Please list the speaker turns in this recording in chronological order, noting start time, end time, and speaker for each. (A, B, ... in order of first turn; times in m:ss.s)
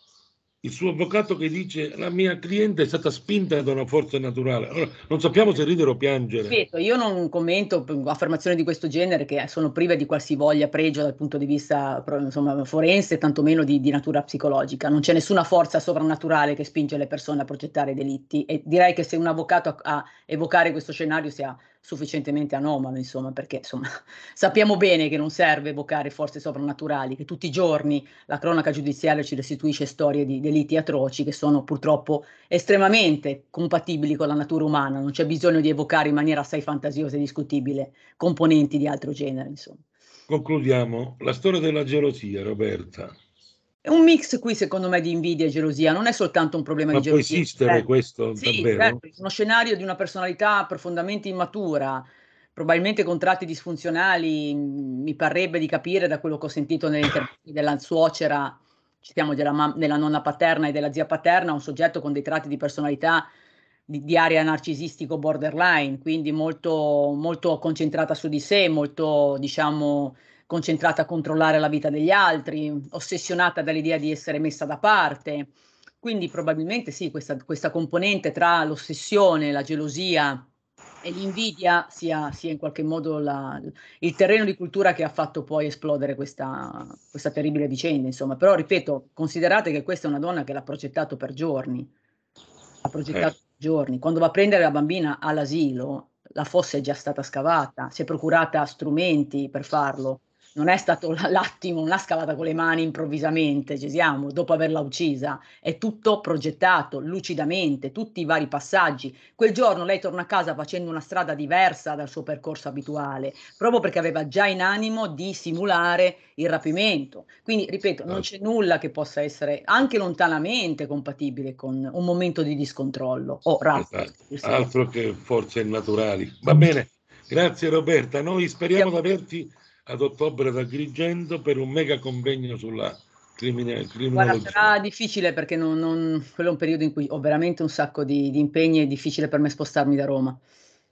0:00.6-0:06.6 A
0:06.4-0:39.8 B
0:40.3-0:43.1 A
0:43.8-0:47.8 B
0:46.9-0:49.0 A
0:48.4-1:03.3 B
1:03.9-1:20.4 B
1:21.0-1:31.9 B
1:32.8-2:04.7 B
2:03.7-2:14.8 A
2:14.1-2:20.4 B